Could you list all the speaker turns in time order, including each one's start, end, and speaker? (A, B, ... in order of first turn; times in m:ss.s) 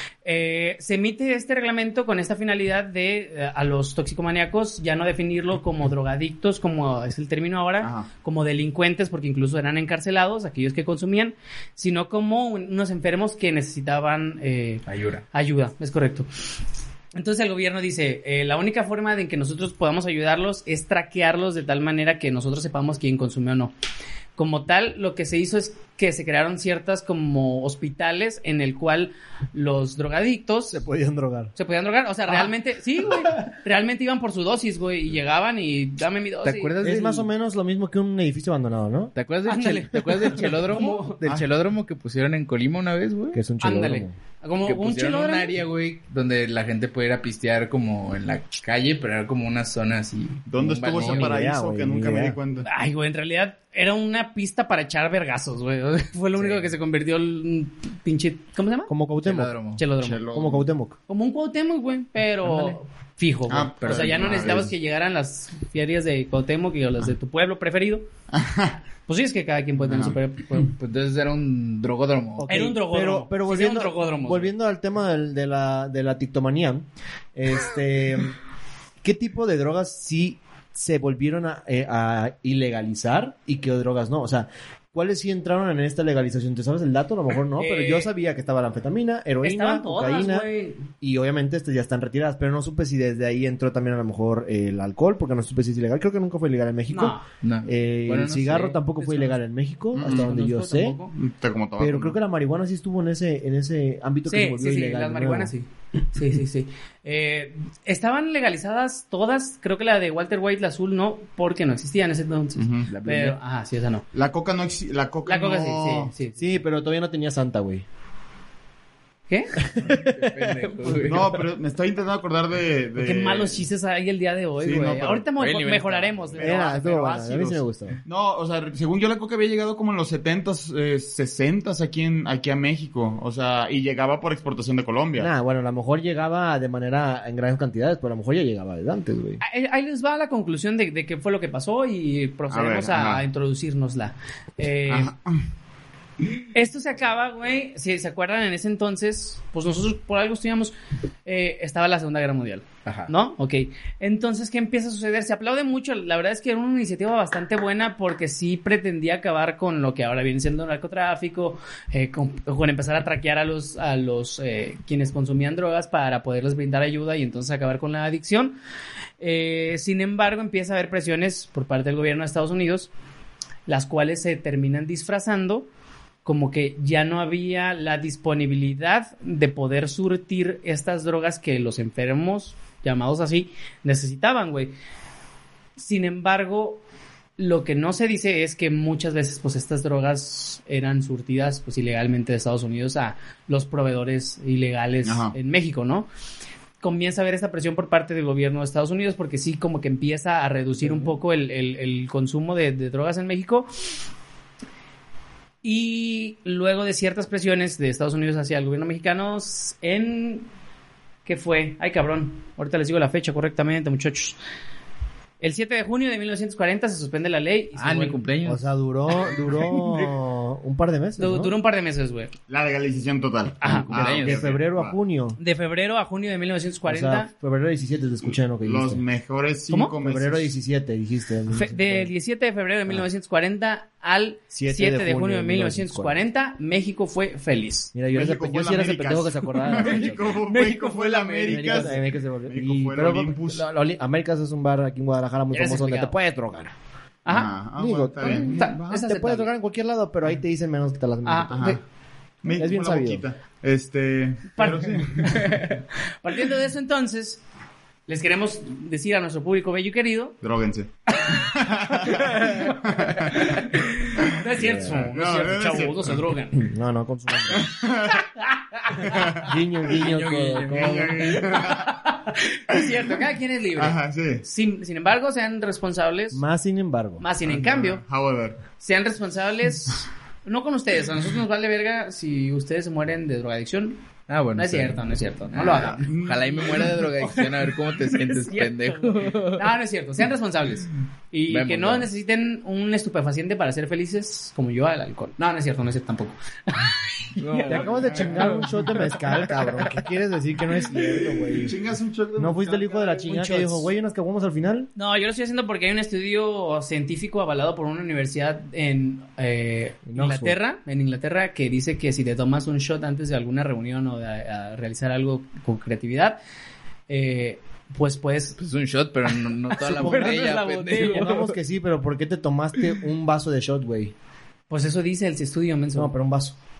0:00.2-0:16.3 A
0:07.8-0:08.1 B
0:14.8-0:15.2 C
0:17.1-0:23.7 A
0:24.4-0:30.8 A
0:30.7-0:31.5 D
0:31.6-0:36.7 A
0:36.4-0:37.3 C
0:36.8-0:39.1 D
0:39.2-0:43.4 C
0:39.5-0:41.2 A
0:43.3-0:44.1 D
0:43.6-0:45.6 A
0:44.6-0:51.4 C
0:50.5-0:52.7 B
0:51.0-0:52.4 D
0:52.6-0:58.9 A
0:56.4-0:56.7 C
0:58.9-0:59.5 D
0:59.2-0:59.8 C
0:59.8-1:00.2 A
1:00.0-1:00.7 B
1:00.3-1:01.0 D
1:01.1-1:08.0 A
1:02.4-1:02.8 C
1:03.5-1:04.7 B
1:03.8-1:04.3 C
1:04.3-1:04.7 D
1:08.3-1:08.8 B
1:09.1-1:10.7 A
1:09.8-1:10.2 B
1:10.6-1:12.7 C
1:12.4-1:18.4 D
1:12.5-1:14.5 A
1:19.0-1:41.0 D
1:27.6-1:28.1 A
1:29.4-1:30.8 A
1:36.9-1:37.2 A
1:37.4-1:38.8 C
1:39.0-1:39.3 A
1:39.9-1:41.1 A
1:40.0-1:40.4 B
1:41.1-1:42.2 B
1:41.8-1:45.5 D
1:44.3-1:54.1 A
1:52.6-1:52.9 B
1:52.9-1:53.4 C
1:54.1-1:56.1 B
1:55.2-1:56.6 A
1:56.4-1:57.8 D
1:59.3-1:59.6 A
1:59.6-2:01.0 D
1:59.9-2:01.4 C
2:01.0-2:03.6 B
2:03.0-2:06.6 A
2:04.6-2:05.2 B
2:05.4-2:06.2 C
2:06.4-2:15.3 B
2:06.4-2:08.0 D
2:15.2-2:19.4 D
2:19.4-2:25.1 A
2:22.5-2:23.2 B
2:24.9-2:25.4 B
2:26.5-2:30.7 A
2:31.2-2:48.5 A
2:32.8-2:33.1 C
2:49.2-2:52.9 A
2:53.7-2:55.7 A
2:56.2-3:04.7 A
3:05.8-3:06.8 A
3:07.4-3:16.1 A
3:15.0-3:15.3 B
3:16.8-3:23.8 A
3:25.6-3:30.5 A
3:31.2-3:34.4 A
3:35.4-3:38.2 A
3:37.8-3:38.7 C
3:38.4-3:41.5 D
3:41.2-3:42.3 A
3:42.5-3:45.0 B
3:43.6-3:43.9 A
3:43.7-3:44.5 C
3:43.7-3:45.4 D
3:45.4-3:47.3 A
3:46.9-3:49.0 D
3:48.6-3:50.6 B
3:50.0-3:52.1 D
3:51.5-3:57.9 A
3:54.5-3:56.2 D
3:57.9-4:00.4 D
3:58.1-4:03.6 B
3:59.7-4:01.9 A
4:01.5-4:06.7 D
4:05.5-4:06.2 A
4:07.2-4:07.5 A
4:07.3-4:09.0 B
4:07.8-4:11.8 D
4:08.2-4:09.5 A
4:11.2-4:11.7 A
4:11.5-4:11.8 B
4:12.4-4:15.6 B
4:12.5-4:13.2 D
4:14.6-4:17.4 A
4:18.1-4:20.4 A
4:20.4-4:26.2 B
4:22.4-4:26.6 A
4:24.6-4:25.1 D
4:26.5-4:27.7 D
4:27.5-4:28.3 B
4:28.4-4:29.4 A
4:29.0-4:29.6 B
4:29.4-4:31.4 D
4:29.9-4:31.5 C
4:30.7-4:32.0 B
4:31.4-4:36.4 A
4:32.7-4:33.0 B
4:33.8-4:34.4 B
4:36.3-4:37.2 D
4:37.2-4:38.0 A
4:37.4-4:38.6 B
4:38.8-4:44.0 A
4:44.3-4:49.7 C
4:44.5-4:46.1 A
4:45.6-4:47.1 B
4:48.1-4:58.5 A
4:51.5-4:52.1 C
4:57.4-4:59.4 C
4:57.7-5:01.8 D
4:58.0-4:58.4 B
5:00.9-5:03.3 B
5:02.4-5:04.9 D
5:03.2-5:03.9 A
5:05.0-5:16.4 A
5:10.0-5:10.6 D
5:17.1-5:18.6 A
5:18.6-5:21.5 C
5:19.7-5:21.5 A
5:19.8-5:24.1 D
5:24.7-5:26.1 A
5:25.9-5:26.6 D